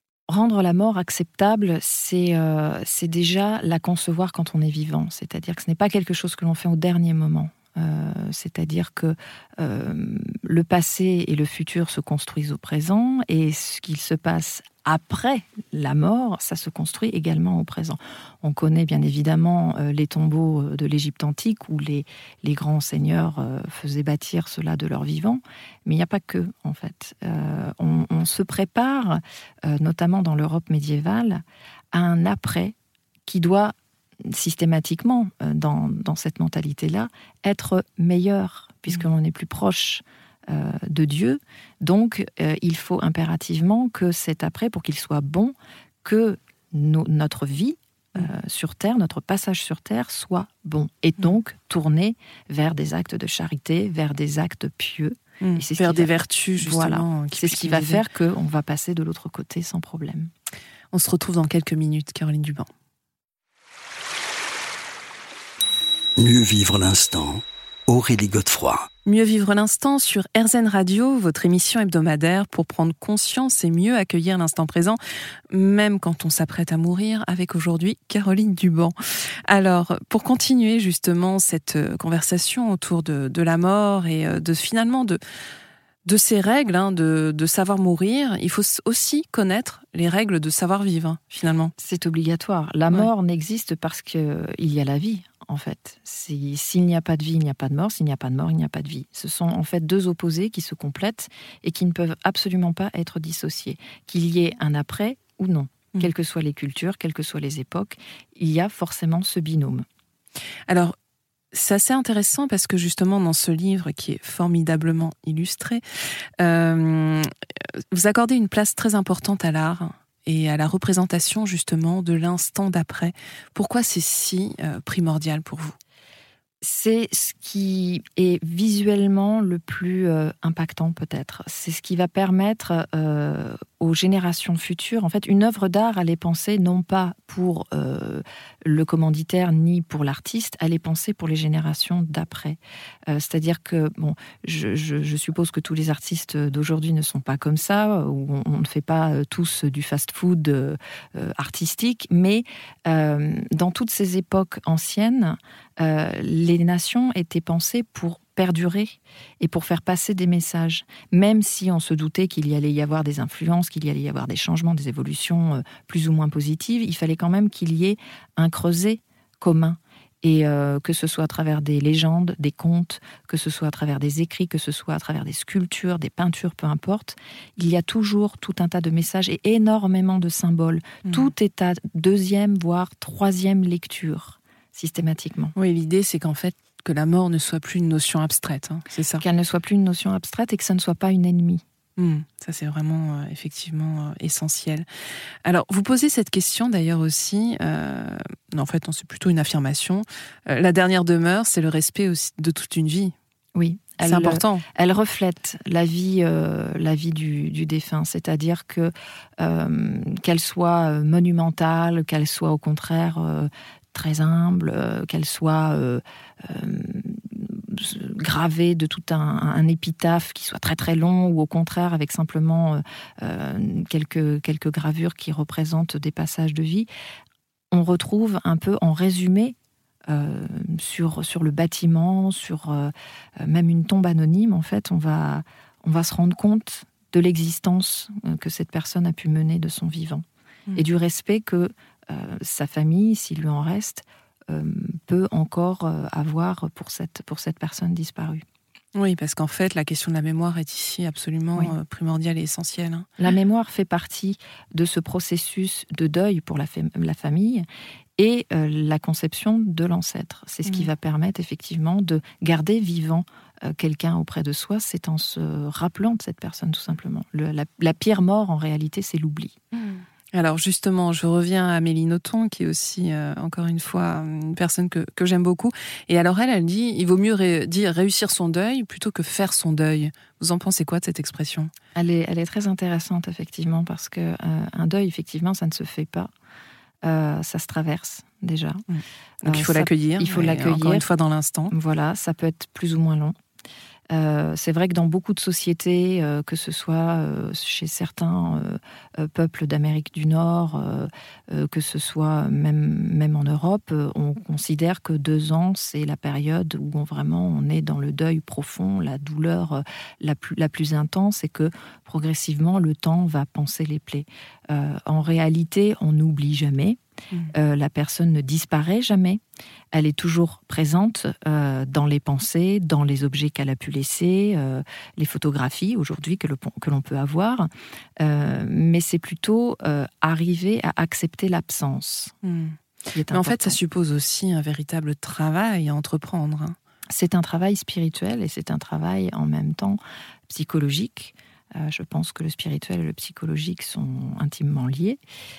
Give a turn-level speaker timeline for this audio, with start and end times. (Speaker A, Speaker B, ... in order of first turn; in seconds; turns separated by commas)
Speaker A: 0.3-32.7, Speaker A: 33.2-33.7, Speaker A: 34.2-60.3, Speaker B: 55.4-58.0, Speaker B: 60.9-62.7, Speaker C: 66.2-68.9, Speaker B: 69.0-75.0, Speaker B: 75.5-78.9, Speaker B: 79.5-85.2, Speaker B: 86.0-91.7, Speaker A: 91.8-109.8, Speaker B: 110.7-110.9, Speaker B: 111.5-115.8, Speaker B: 116.4-117.3, Speaker B: 117.9-125.7, Speaker A: 126.6-185.5, Speaker B: 185.5-189.2, Speaker A: 189.2-191.6, Speaker B: 192.0-194.8, Speaker B: 195.4-203.1, Speaker A: 203.5-226.9, Speaker B: 204.0-204.6, Speaker A: 227.7-229.5, Speaker A: 230.1-240.2, Speaker A: 240.8-248.4, Speaker B: 248.9-253.1, Speaker A: 253.2-257.6, Speaker A: 258.2-269.6, Speaker B: 269.7-281.7, Speaker A: 281.9-286.3, Speaker A: 287.0-288.8, Speaker B: 288.9-291.7, Speaker A: 289.4-291.1, Speaker A: 291.7-293.3, Speaker A: 294.1-317.0, Speaker A: 317.5-319.4, Speaker A: 319.9-327.7, Speaker A: 328.2-332.3, Speaker B: 332.4-332.7, Speaker A: 333.1-333.8, Speaker B: 333.3-336.8, Speaker A: 337.1-345.2